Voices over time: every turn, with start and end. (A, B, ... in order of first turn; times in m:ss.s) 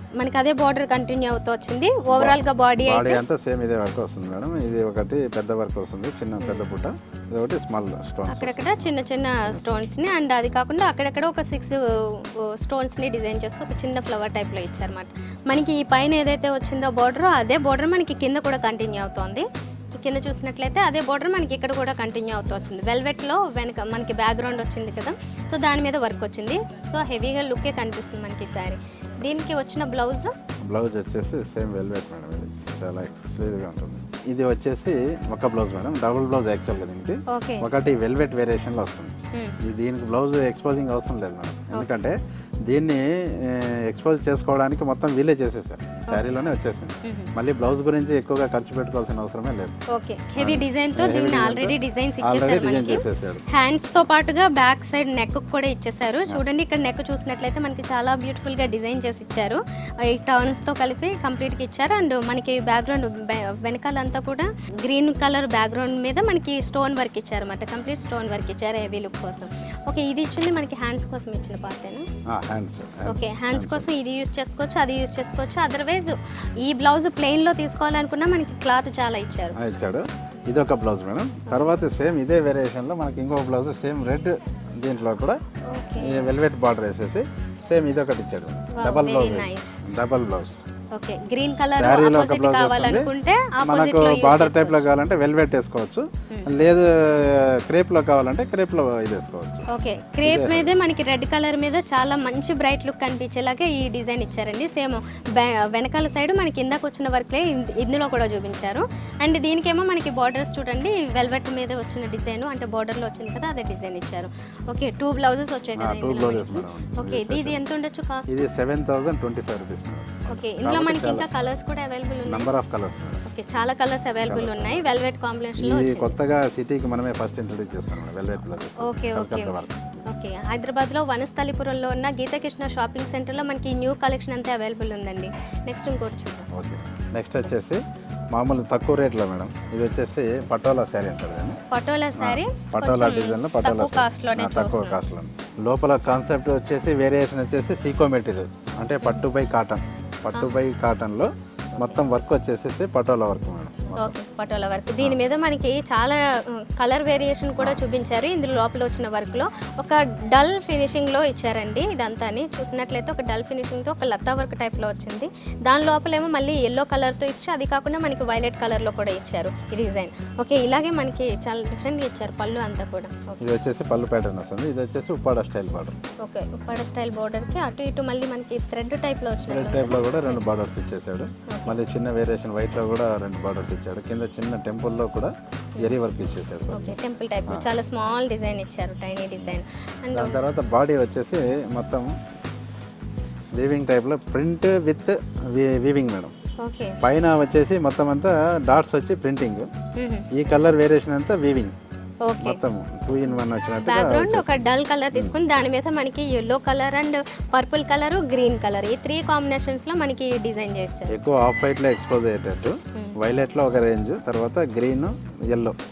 0:00.2-0:03.2 A
0:02.1-0:09.8 B
0:06.4-0:06.6 A
0:08.3-0:30.3 A
0:30.6-0:49.7 B
0:37.3-0:37.7 A
0:39.3-0:39.6 A
0:46.1-0:46.4 A
0:47.0-0:47.3 A
0:49.9-1:12.1 A
0:50.4-0:53.4 B
1:12.3-1:13.9 B
1:13.1-1:19.6 A
1:19.5-1:25.4 B
1:21.5-1:21.8 A
1:25.6-1:26.3 A
1:26.0-1:30.6 B
1:28.7-1:29.8 A
1:30.9-1:34.8 A
1:31.7-1:33.1 B
1:33.6-1:39.7 B
1:39.7-1:58.5 A
1:40.2-1:40.7 B
1:55.8-1:57.6 B
1:58.3-2:01.3 B
2:00.3-2:02.5 A
2:02.2-2:03.2 B
2:03.2-2:06.2 A
2:04.2-2:05.0 B
2:05.6-2:10.1 B
2:08.8-2:16.5 A
2:16.5-2:21.6 B
2:21.7-2:25.0 A
2:22.2-2:34.1 B
2:30.3-2:30.6 A
2:33.9-2:53.4 A
2:53.4-2:56.0 B
2:56.2-3:00.4 A
2:59.5-3:07.7 B
3:01.5-3:01.8 A
3:06.7-3:10.4 A
3:10.1-3:12.1 B
3:13.6-3:16.3 B
3:16.6-3:17.0 A
3:17.0-3:19.7 B
3:20.0-3:20.3 A
3:20.3-3:21.7 B
3:22.2-3:22.6 A
3:22.4-3:24.6 B
3:23.3-3:31.2 A
3:31.1-3:35.8 B